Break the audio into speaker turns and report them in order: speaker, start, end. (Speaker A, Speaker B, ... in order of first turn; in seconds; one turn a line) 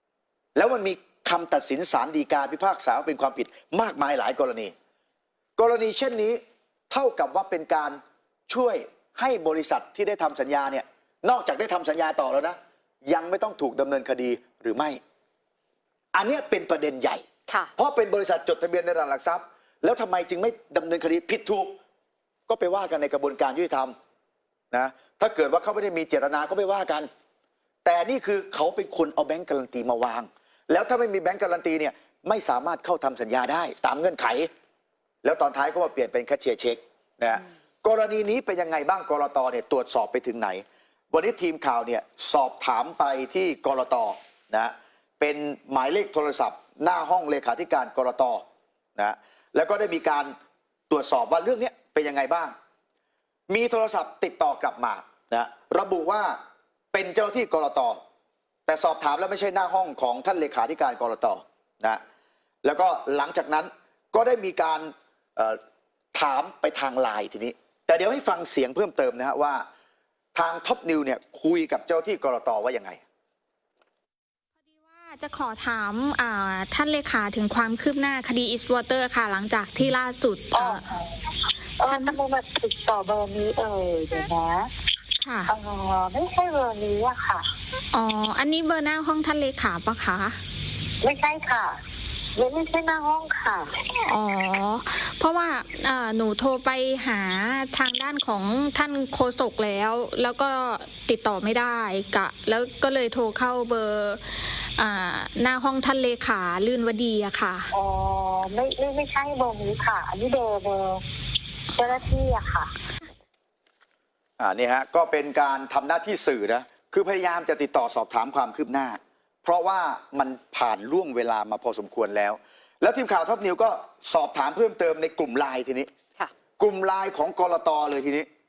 Speaker A: 0.6-4.7
Speaker A: 5.6-15.0
Speaker A: 16.1-17.2
Speaker A: 17.8-21.8
Speaker A: 22.5-23.9
Speaker A: 24.7-27.1
Speaker A: 27.8-34.5
Speaker A: 35.2-48.4
Speaker A: 49.0-50.3
Speaker A: 50.9-52.5
Speaker A: 53.5-56.4
Speaker A: 56.9-58.0
Speaker A: 58.7-62.0
Speaker A: 62.6-65.6
Speaker A: 66.1-69.7
Speaker A: 70.3-73.0
Speaker B: 74.9-80.8
Speaker C: 80.5-84.7
Speaker B: 81.9-82.1
Speaker B: 85.2-85.5
Speaker C: 85.5-87.5
Speaker B: 87.9-90.4
Speaker C: 91.0-91.8
Speaker C: 92.4-93.7
Speaker B: 94.0-107.7
Speaker C: 107.7-111.0
Speaker C: 111.7-112.7
Speaker A: 114.4-125.9
Speaker A: 126.6-128.3